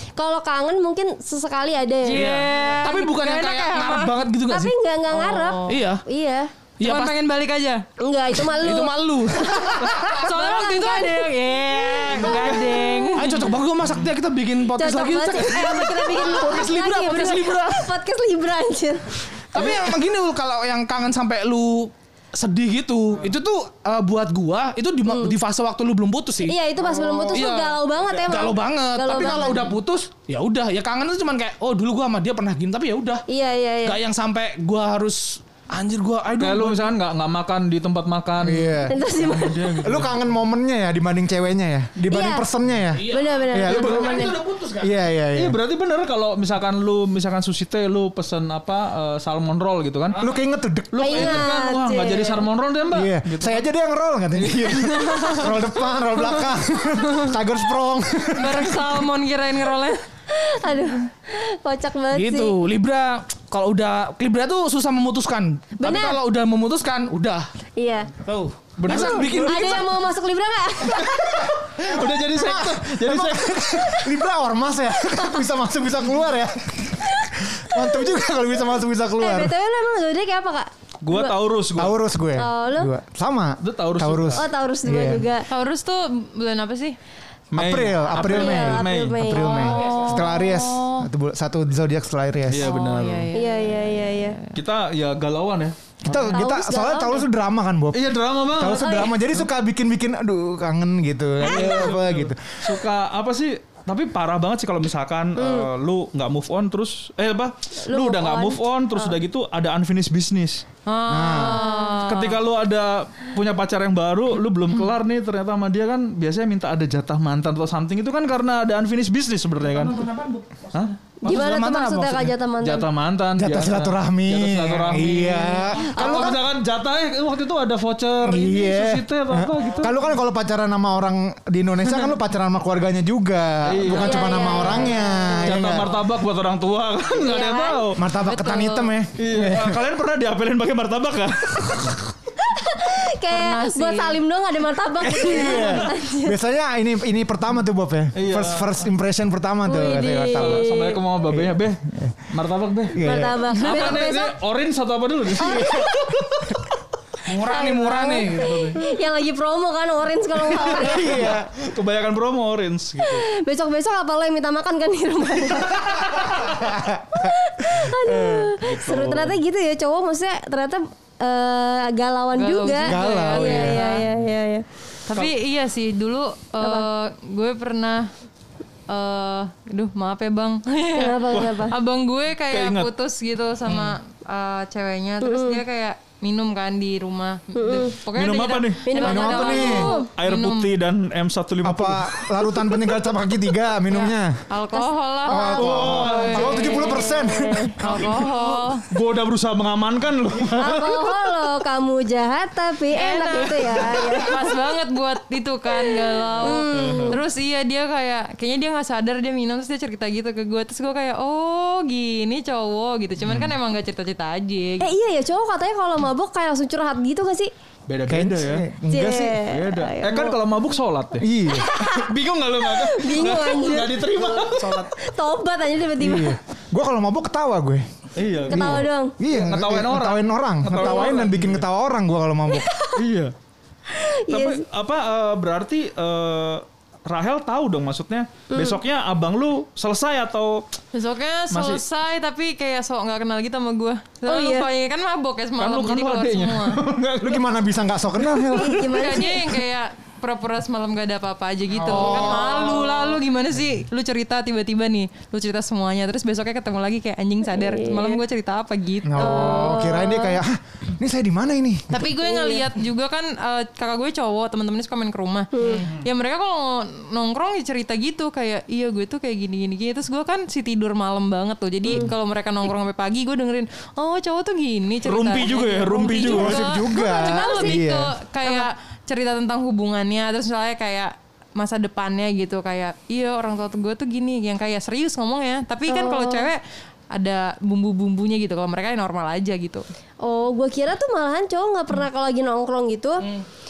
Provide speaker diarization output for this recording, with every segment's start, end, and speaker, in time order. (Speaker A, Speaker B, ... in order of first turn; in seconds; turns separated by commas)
Speaker A: 0.2-2.3, Speaker B: 2.0-4.2, Speaker C: 2.1-4.8, Speaker A: 4.5-6.5, Speaker B: 5.1-5.8, Speaker C: 5.7-6.0, Speaker C: 6.8-7.2, Speaker B: 6.8-7.8, Speaker A: 8.0-11.3, Speaker C: 8.4-10.2, Speaker B: 10.1-13.5, Speaker A: 12.0-13.3, Speaker C: 13.2-17.9, Speaker A: 14.8-19.9, Speaker C: 19.5-33.2, Speaker A: 25.1-25.3, Speaker A: 26.4-29.8, Speaker A: 33.3-34.0, Speaker C: 33.9-36.9, Speaker D: 36.4-40.2, Speaker E: 38.4-39.0, Speaker A: 38.9-39.7, Speaker E: 39.8-44.1, Speaker A: 42.1-42.5, Speaker C: 42.9-44.9, Speaker A: 43.1-44.4, Speaker E: 44.8-45.6, Speaker D: 45.3-50.2, Speaker E: 50.2-51.5, Speaker D: 50.9-53.6, Speaker A: 51.0-52.5, Speaker E: 52.9-59.0, Speaker D: 54.4-55.5, Speaker B: 58.4-60.0, Speaker A: 60.3-62.6, Speaker C: 62.1-67.5, Speaker A: 65.8-66.2, Speaker A: 67.8-68.1, Speaker C: 68.2-70.0, Speaker D: 68.8-69.7, Speaker A: 68.9-71.5, Speaker D: 71.8-74.0, Speaker E: 72.3-79.5, Speaker A: 79.2-81.3, Speaker D: 81.0-82.0, Speaker E: 81.8-85.3, Speaker A: 82.4-82.9, Speaker D: 83.6-84.5, Speaker A: 84.4-85.5, Speaker B: 85.5-87.0, Speaker D: 87.5-89.6, Speaker E: 87.5-92.7, Speaker A: 88.1-90.2, Speaker B: 89.7-91.1, Speaker D: 92.5-93.3, Speaker B: 92.6-94.5, Speaker A: 93.3-94.4, Speaker D: 94.5-96.3, Speaker E: 96.0-102.5, Speaker A: 96.3-97.3, Speaker D: 97.9-99.4, Speaker A: 98.7-99.2, Speaker D: 101.4-110.6, Speaker A: 105.4-105.7, Speaker A: 107.9-109.2, Speaker B: 110.9-112.4, Speaker E: 111.1-111.7, Speaker A: 111.3-112.0, Speaker D: 112.0-120.0, Speaker C: 119.7-122.3, Speaker A: 121.2-122.9, Speaker D: 122.6-130.0, Speaker E: 123.4-126.4, Speaker A: 125.7-126.4, Speaker E: 128.2-135.9, Speaker D: 133.6-138.0, Speaker A: 133.9-135.5, Speaker A: 137.1-137.8, Speaker E: 137.9-139.8, Speaker B: 138.2-138.9, Speaker D: 139.2-142.1, Speaker A: 142.4-146.4, Speaker B: 143.3-144.2, Speaker D: 145.0-145.9, Speaker E: 145.1-150.7, Speaker D: 148.2-148.8, Speaker A: 149.7-151.0, Speaker D: 150.3-156.1, Speaker E: 151.3-152.1, Speaker E: 152.9-154.0, Speaker A: 153.0-154.3, Speaker A: 155.4-156.2, Speaker E: 155.4-155.9, Speaker C: 157.3-158.8, Speaker A: 157.4-161.3, Speaker D: 160.5-163.3, Speaker E: 160.8-161.5, Speaker A: 163.0-166.5, Speaker E: 166.4-168.6, Speaker A: 167.1-174.7, Speaker D: 168.6-169.4, Speaker B: 172.3-174.1, Speaker E: 172.9-173.9, Speaker B: 175.1-178.1, Speaker A: 176.6-176.9, Speaker B: 178.9-190.7, Speaker A: 180.9-181.8, Speaker D: 181.3-181.8, Speaker D: 182.5-182.9, Speaker A: 185.2-185.6, Speaker A: 187.6-187.9, Speaker D: 188.1-192.3, Speaker A: 188.9-190.1, Speaker E: 189.0-189.9, Speaker E: 191.6-194.4, Speaker B: 193.9-197.0, Speaker A: 194.7-197.8, Speaker E: 195.3-197.8, Speaker D: 195.6-196.9, Speaker B: 197.8-198.8, Speaker D: 197.8-201.2, Speaker A: 200.6-204.6, Speaker B: 202.9-214.9, Speaker A: 205.7-207.2, Speaker D: 206.7-207.2, Speaker A: 214.8-217.5, Speaker D: 217.9-218.7, Speaker E: 218.1-219.4, Speaker A: 218.9-220.4, Speaker D: 219.4-224.9, Speaker E: 221.2-221.7, Speaker A: 221.5-222.1, Speaker A: 222.6-226.4, Speaker C: 224.6-224.9, Speaker E: 226.0-227.8, Speaker D: 228.2-231.6, Speaker A: 228.5-229.2, Speaker E: 228.5-232.7, Speaker A: 230.8-231.2, Speaker A: 232.5-233.0, Speaker D: 233.0-233.3, Speaker A: 233.9-234.6, Speaker D: 234.3-240.6, Speaker A: 238.5-238.8, Speaker B: 240.9-246.8, Speaker D: 241.5-241.8, Speaker A: 244.3-244.7, Speaker D: 245.6-247.6, Speaker E: 247.2-248.9, Speaker D: 248.2-248.6, Speaker A: 248.6-249.5, Speaker B: 248.9-259.9, Speaker E: 251.7-253.1, Speaker A: 257.5-258.2, Speaker E: 259.1-262.1, Speaker A: 259.2-260.4, Speaker B: 261.9-289.8, Speaker A: 262.1-262.6, Speaker A: 265.5-265.9, Speaker D: 275.1-276.8, Speaker E: 276.1-278.1, Speaker A: 277.0-277.8, Speaker A: 278.4-278.7, Speaker A: 285.9-286.5, Speaker A: 290.2-293.3